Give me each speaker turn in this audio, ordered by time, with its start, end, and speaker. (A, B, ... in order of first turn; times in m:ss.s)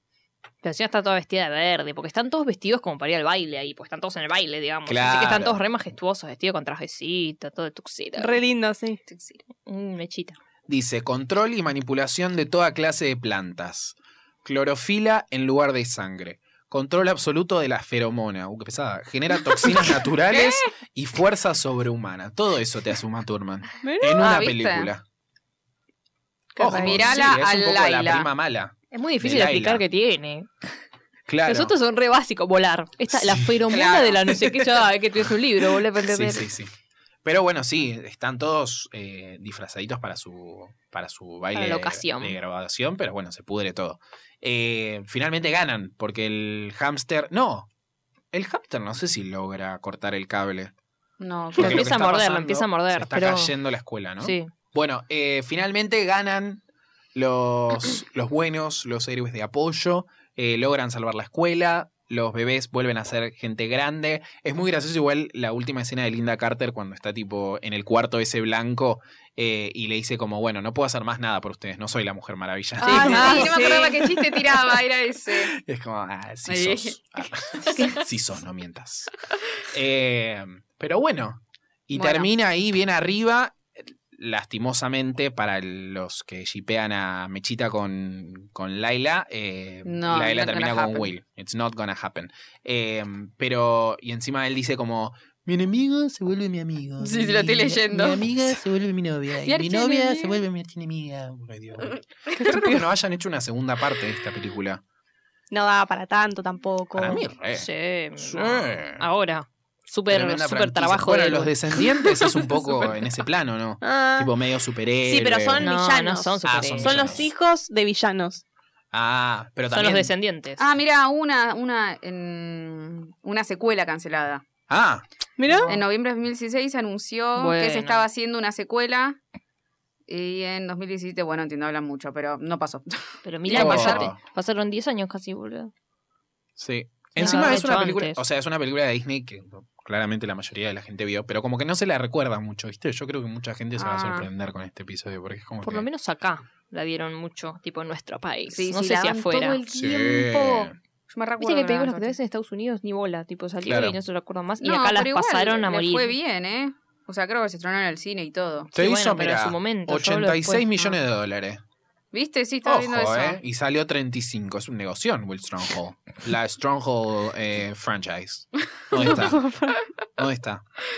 0:00.6-0:08.4 A
0:04.9-0:05.6 B
0:08.2-0:09.0 C
0:09.1-0:09.4 D
0:09.7-0:10.4 A
0:10.7-0:25.0 B
0:20.3-0:20.7 D
0:23.8-0:24.3 C
0:24.2-0:24.9 D
0:26.6-0:27.1 C
0:26.6-0:29.8 B
0:26.7-0:28.3 D
0:28.9-0:30.6 A
0:31.3-0:31.7 B
0:31.4-0:36.5 A
0:33.1-0:33.6 B
0:33.7-0:34.3 D
0:34.4-0:34.7 B
0:36.0-0:36.7 B
0:37.2-0:47.7 B
0:41.6-0:42.4 A
0:48.3-0:50.7 B
0:51.2-0:51.9 D
0:51.6-0:53.5 A
0:51.6-0:56.6 B
0:54.2-0:54.5 A
0:57.2-1:13.7 B
1:12.8-1:14.0 C
1:12.8-1:15.5 D
1:12.9-1:14.0 A
1:15.4-1:19.1 B
1:16.5-1:17.0 D
1:17.7-1:17.9 D
1:17.7-1:18.0 A
1:19.7-1:44.8 B
1:21.9-1:22.3 D
1:29.8-1:31.1 D
1:37.0-1:38.2 D
1:39.4-1:40.4 D
1:45.5-1:47.2 C
1:47.0-1:49.1 B
1:47.5-1:51.7 A
1:50.1-1:55.7 B
1:53.8-1:54.3 C
1:55.0-1:58.4 C
1:55.6-1:57.2 A
1:56.4-1:57.3 B
1:58.9-2:00.1 B
1:59.7-2:00.7 A
2:00.6-2:04.4 D
2:04.7-2:05.0 B
2:05.4-2:05.8 C
2:05.5-2:05.8 A
2:05.7-2:09.2 D
2:07.4-2:08.0 A
2:10.1-2:14.1 D
2:13.2-2:15.7 A
2:13.5-2:14.2 B
2:16.6-2:25.9 B
2:17.2-2:18.2 A
2:17.2-2:17.5 D
2:23.8-2:24.3 D
2:25.6-2:29.6 A
2:28.5-2:32.2 D
2:29.7-2:30.8 B
2:31.4-2:36.2 A
2:33.6-2:34.0 B
2:34.6-2:38.7 D
2:38.7-2:41.0 A
2:38.7-2:41.6 B
2:42.1-2:43.4 D
2:42.6-2:49.6 B
2:49.0-2:49.7 C
2:50.2-2:50.6 B